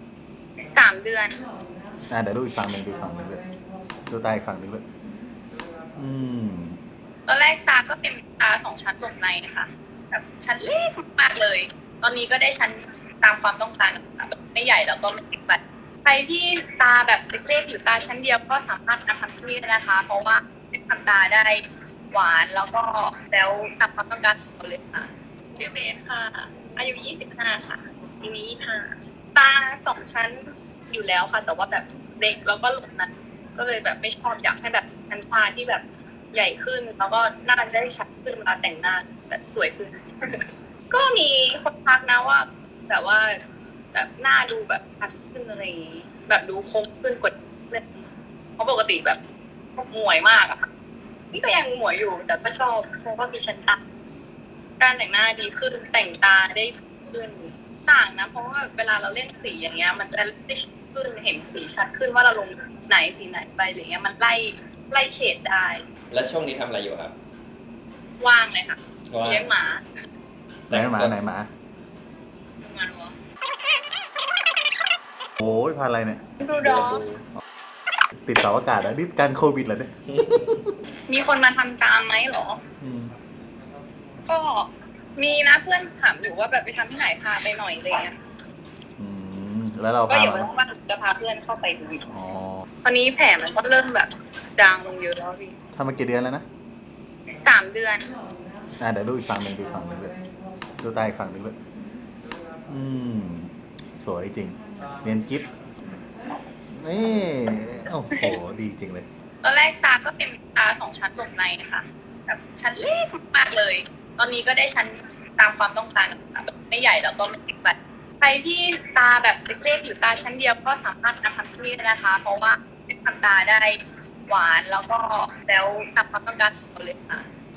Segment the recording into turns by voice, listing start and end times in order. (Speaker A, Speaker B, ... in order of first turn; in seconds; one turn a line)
Speaker A: 0.7-1.4
Speaker B: 2.1-3.4
Speaker B: 4.1-4.8
Speaker B: 6.0-6.8
Speaker A: 7.3-43.4
Speaker A: 43.9-48.1
Speaker A: 48.6-49.2
Speaker A: 49.8-50.6
Speaker A: 51.3-53.8
Speaker A: 54.8-65.8
Speaker C: 66.1-67.2
Speaker A: 68.2-69.8
Speaker C: 69.1-69.5
Speaker C: 70.7-71.2
Speaker B: 70.7-71.5
Speaker A: 72.6-73.1
Speaker B: 75.4-76.3
Speaker A: 76.4-77.0
Speaker C: 76.6-77.2
Speaker B: 78.2-80.0
Speaker A: 81.1-82.6
Speaker B: 82.8-83.1
Speaker A: 84.3-88.2
Speaker B: 89.0-90.5
Speaker A: 90.1-92.1
Speaker B: 92.1-92.6
Speaker A: 92.8-95.5
Speaker B: 95.7-96.5
Speaker A: 97.4-98.1
Speaker B: 98.8-100.2
Speaker B: 100.8-101.6
Speaker B: 102.7-106.0
Speaker B: 106.7-109.1
Speaker A: 109.4-127.3